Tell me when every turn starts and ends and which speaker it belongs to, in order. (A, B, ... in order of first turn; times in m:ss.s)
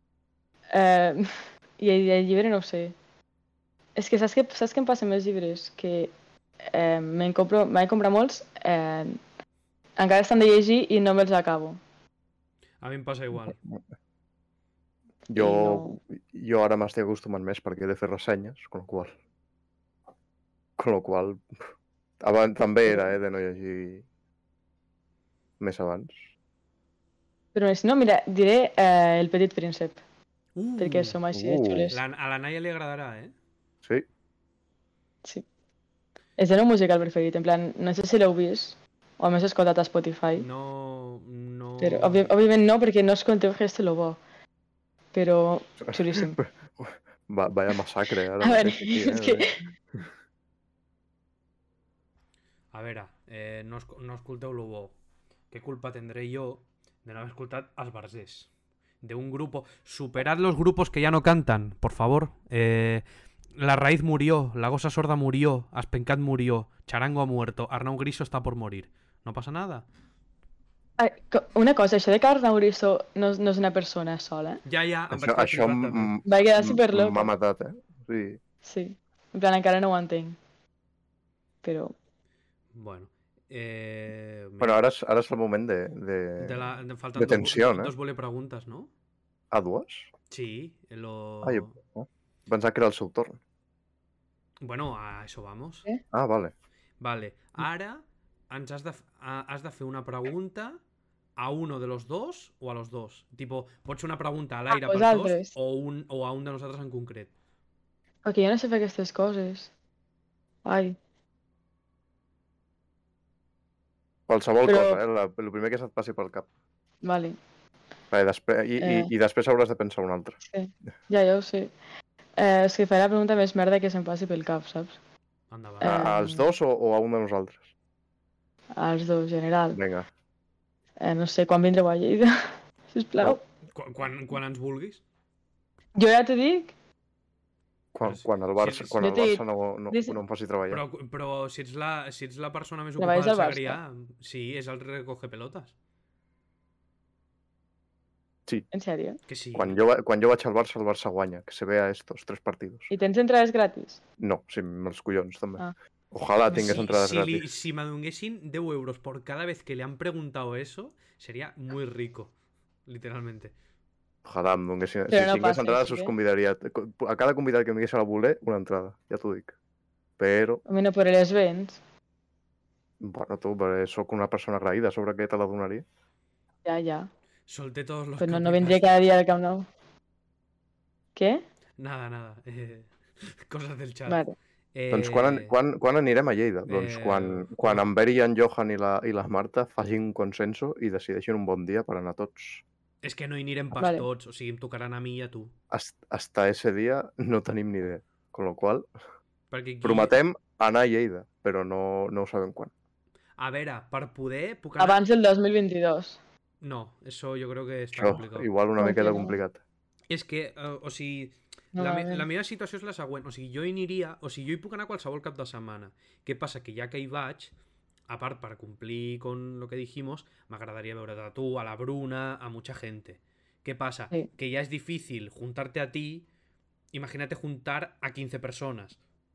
0:00.7-0:03.0 A
0:04.0-0:06.1 A
0:06.7-0:09.2 A
0:10.0-0:11.8 A
0:12.8-0:13.6 B
0:15.3-0:19.1 C
0:15.4-0:16.0 A
0:20.8-0:21.6 C
0:22.2-0:24.0 C
0:22.9-0:23.1 A
0:25.6-0:26.3 C
0:27.5-0:30.0 A
0:30.6-0:31.2 B
0:30.8-0:32.0 A
0:31.3-0:31.9 C
0:31.9-0:33.3 B
0:36.4-0:40.5 A
0:40.4-0:42.3 B
0:41.8-0:44.2 A
0:45.1-0:46.4 A
0:45.8-0:50.1 C
0:48.4-0:49.6 A
0:52.7-0:54.9 B
0:55.5-0:58.5 B
0:59.0-1:03.0 B
1:03.6-1:09.8 B
1:11.0-1:14.6 A
1:14.6-1:16.2 B
1:15.1-1:18.4 C
1:16.2-1:17.3 A
1:18.6-1:20.4 A
1:21.6-1:22.0 A
1:22.8-1:24.8 B
1:24.6-1:27.9 C
1:26.4-1:28.9 B
1:29.5-1:30.1 C
1:30.3-1:31.7 B
1:31.4-1:33.4 C
1:34.6-1:35.9 B
1:36.1-1:36.5 C
1:37.0-1:40.8 B
1:41.4-1:47.3 B
1:44.7-1:45.5 A
1:48.2-1:49.7 A
1:50.6-1:51.0 A
1:54.3-1:56.5 C
1:54.6-1:55.0 A
1:57.0-1:57.4 A
1:58.1-2:00.4 C
1:58.8-1:59.1 A
2:00.5-2:01.7 A
2:02.4-2:05.0 A
2:05.5-2:06.1 B
2:05.8-2:06.5 A
2:05.8-2:07.7 C
2:08.8-2:09.8 A
2:09.7-2:10.1 C
2:11.0-2:13.4 A
2:13.7-2:15.0 B
2:16.0-2:16.7 A
2:17.9-2:20.8 C
2:18.0-2:19.0 B
2:19.0-2:20.2 A
2:20.7-2:25.7 B
2:23.0-2:23.8 A
2:28.7-2:29.2 A
2:29.3-2:29.8 B
2:29.6-2:32.9 C
2:32.9-2:34.0 A
2:34.2-2:37.4 C
2:36.5-2:42.3 B
2:42.9-2:43.5 B
2:44.2-2:49.6 C
2:45.1-2:46.1 A
2:50.2-2:50.6 C
2:50.7-2:51.8 A
2:53.0-2:55.8 C
2:56.6-2:57.1 A
2:57.5-2:59.0 B
2:58.2-2:59.7 A
3:01.2-3:01.4 A
3:01.8-3:04.2 B
3:04.1-3:04.4 A
3:04.8-3:05.5 B
3:04.9-3:12.6 C
3:06.7-3:07.9 B
3:13.0-3:15.5 B
3:13.8-3:14.0 A
3:15.7-3:18.9 C
3:19.5-3:20.1 B
3:19.8-3:22.7 C
3:23.4-3:25.0 B
3:24.8-3:26.2 A
3:26.6-3:28.5 B
3:27.9-3:29.6 C
3:28.8-3:29.4 A
3:30.1-3:37.5 B
3:31.8-3:32.2 A
3:38.1-3:46.3 B
3:46.9-3:49.0 B